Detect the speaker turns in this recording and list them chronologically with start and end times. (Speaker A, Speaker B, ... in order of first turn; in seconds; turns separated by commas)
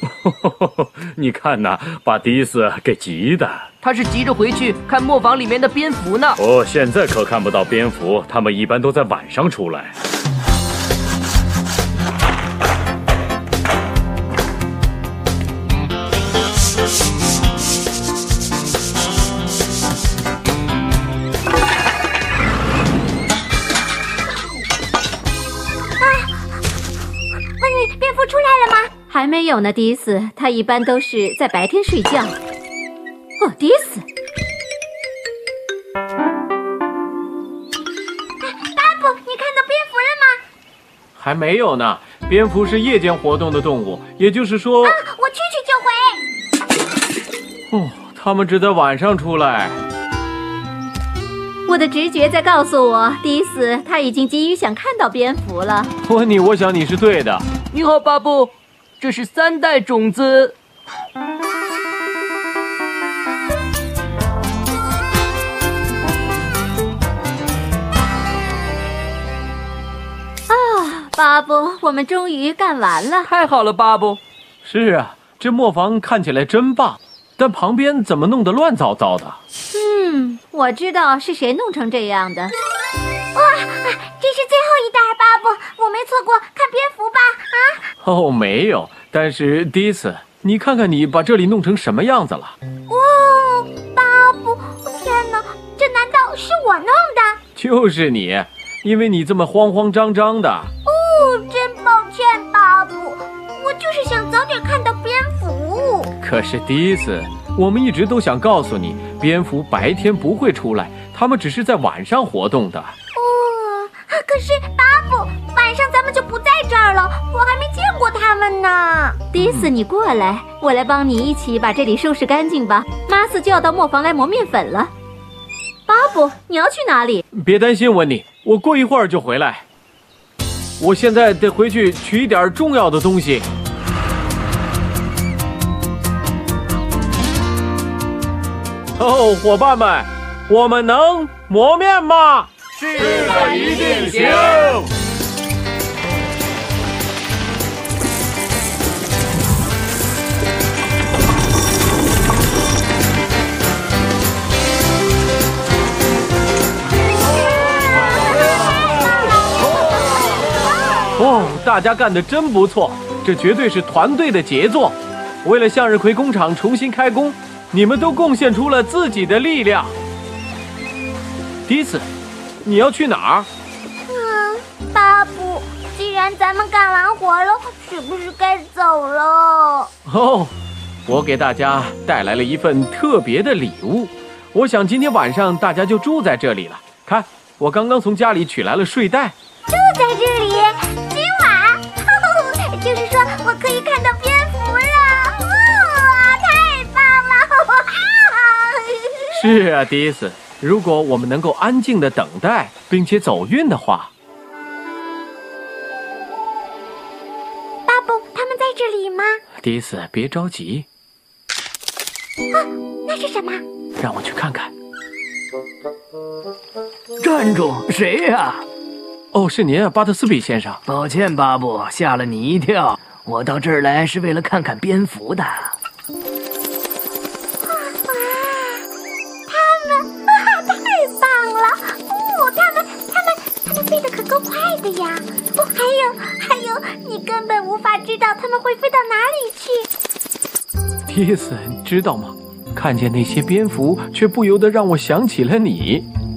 Speaker A: 0.2-3.6, Speaker B: 3.8-6.4, Speaker A: 6.4-9.9, Speaker C: 26.0-26.6, Speaker C: 27.6-28.9, Speaker D: 29.0-32.4, Speaker D: 33.4-34.0, Speaker C: 38.4-40.4, Speaker E: 41.1-45.0, Speaker C: 44.8-46.2, Speaker E: 47.7-49.8, Speaker D: 51.6-55.9, Speaker E: 56.0-57.5, Speaker B: 57.7-60.5, Speaker D: 70.5-73.3, Speaker B: 73.2-74.2, Speaker E: 74.6-79.4, Speaker D: 79.7-82.5, Speaker C: 83.3-87.8, Speaker E: 88.0-92.5, Speaker C: 92.9-97.4, Speaker E: 97.5-100.7, Speaker C: 100.8-106.1, Speaker E: 106.2-112.9, Speaker C: 113.1-119.2, Speaker D: 119.3-124.9, Speaker D: 125.9-127.2, Speaker E: 127.3-129.6, Speaker E: 130.8-133.5, Speaker E: 139.0-142.5, Speaker B: 142.8-144.8, Speaker E: 143.0-144.8, Speaker E: 161.2-169.9, Speaker E: 171.7-172.1, Speaker E: 172.6-173.5, Speaker C: 174.0-179.9, Speaker E: 180.1-180.5, Speaker E: 181.1-189.3, Speaker C: 189.7-199.4, Speaker E: 199.3-204.1, Speaker C: 207.9-209.4, Speaker E: 209.6-210.8, Speaker C: 212.5-213.6, Speaker E: 214.0-214.7, Speaker F: 217.2-218.6, Speaker E: 219.3-220.8, Speaker F: 220.9-225.8, Speaker C: 227.6-228.9, Speaker C: 229.5-239.9, Speaker E: 241.1-246.1